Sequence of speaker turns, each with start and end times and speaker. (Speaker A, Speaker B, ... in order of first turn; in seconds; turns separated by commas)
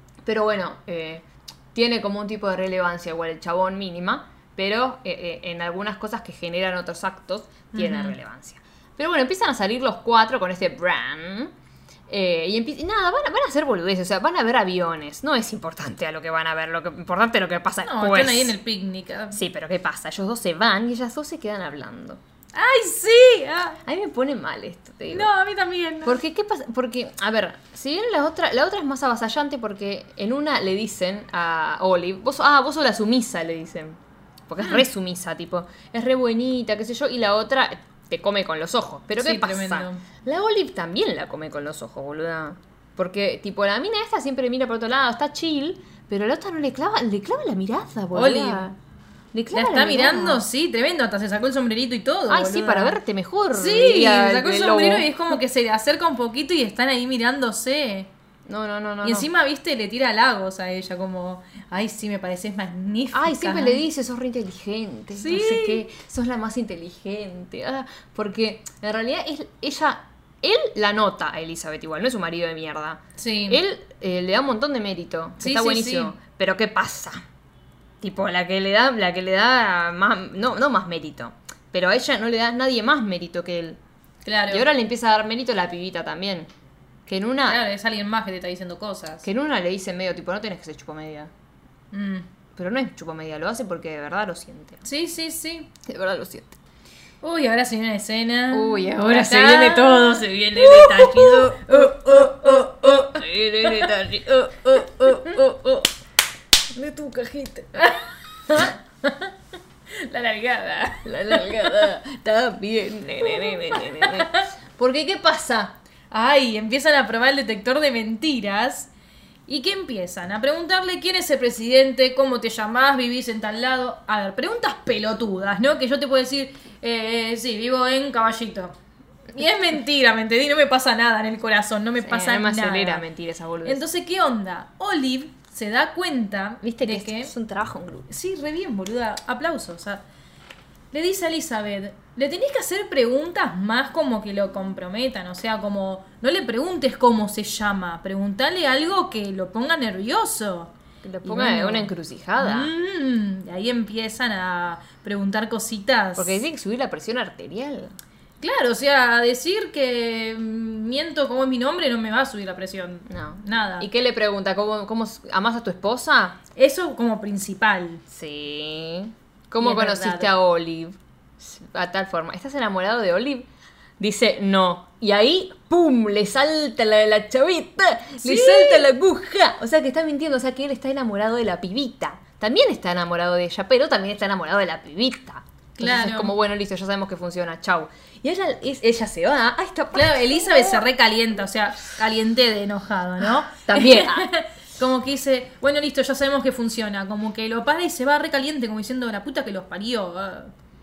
Speaker A: 0.2-11.5, Speaker B: 7.7-8.2, Speaker A: 12.1-18.5, Speaker B: 17.8-19.4, Speaker A: 19.3-22.2, Speaker B: 22.5-23.8, Speaker A: 23.8-25.3, Speaker B: 25.1-26.2, Speaker A: 26.0-34.0, Speaker A: 34.5-48.8, Speaker B: 39.2-40.0, Speaker B: 48.1-48.7, Speaker A: 49.3-50.4, Speaker B: 49.5-53.0, Speaker A: 52.3-55.1, Speaker B: 53.5-58.1, Speaker A: 58.5-59.3, Speaker B: 59.0-63.8, Speaker A: 63.1-77.2, Speaker B: 65.2-65.8, Speaker B: 73.2-73.6, Speaker B: 75.4-76.1, Speaker A: 78.0-83.8, Speaker B: 84.2-84.7, Speaker A: 84.5-86.5, Speaker A: 87.1-87.6, Speaker B: 87.5-89.2, Speaker A: 89.2-91.3, Speaker B: 91.9-92.3, Speaker A: 92.5-94.8, Speaker B: 94.8-95.7, Speaker A: 95.8-96.6, Speaker B: 97.2-103.9, Speaker A: 98.5-105.9, Speaker A: 106.7-108.0, Speaker B: 108.5-109.3, Speaker B: 109.9-111.8, Speaker A: 111.0-115.8, Speaker B: 113.2-114.4, Speaker B: 116.1-118.9, Speaker B: 119.5-128.8, Speaker B: 129.3-133.0, Speaker A: 132.0-133.8, Speaker B: 133.6-137.3, Speaker A: 136.6-138.1, Speaker B: 138.1-140.0, Speaker B: 140.9-150.7, Speaker A: 151.0-152.7, Speaker B: 151.2-156.4, Speaker A: 156.2-157.9, Speaker B: 158.4-163.9, Speaker A: 163.1-166.4, Speaker B: 166.6-168.0, Speaker A: 168.1-173.5, Speaker B: 169.6-170.3, Speaker A: 174.0-190.8, Speaker B: 178.2-178.9, Speaker B: 185.8-186.3, Speaker B: 189.9-200.5, Speaker A: 193.5-194.3